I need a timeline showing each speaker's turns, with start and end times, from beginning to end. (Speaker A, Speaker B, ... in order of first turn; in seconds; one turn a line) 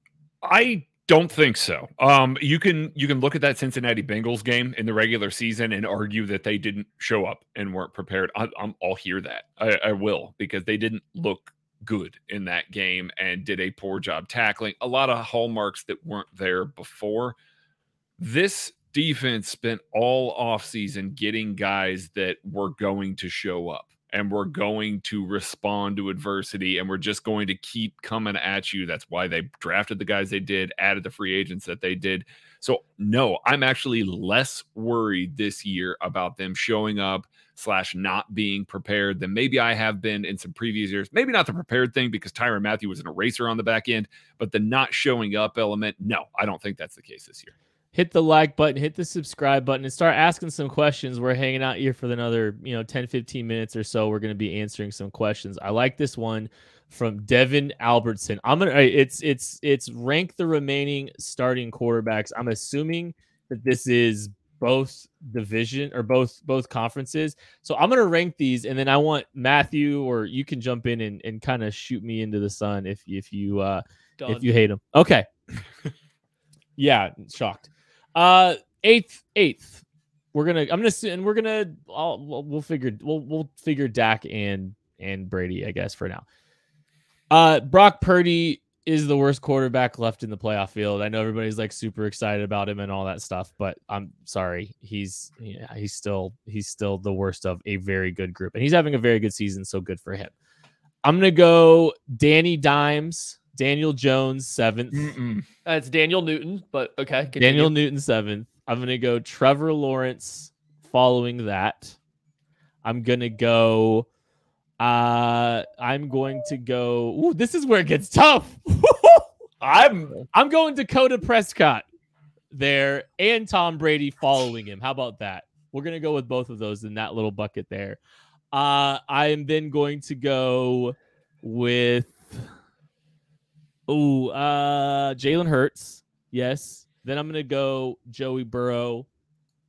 Speaker A: 0.4-17.4
Speaker A: 18.2-47.5
Speaker B: 47.9-75.3
Speaker C: 74.2-74.5
Speaker B: 76.8-86.2
Speaker B: 87.3-100.3
Speaker B: 101.0-105.1
Speaker A: 104.9-105.5
Speaker C: 105.7-107.7
Speaker B: 107.4-112.0
Speaker B: 112.8-114.1
Speaker B: 114.8-119.2
Speaker A: 119.6-120.3
Speaker B: 120.3-121.8
Speaker B: 122.5-128.0
Speaker B: 128.5-132.5
Speaker B: 133.9-139.1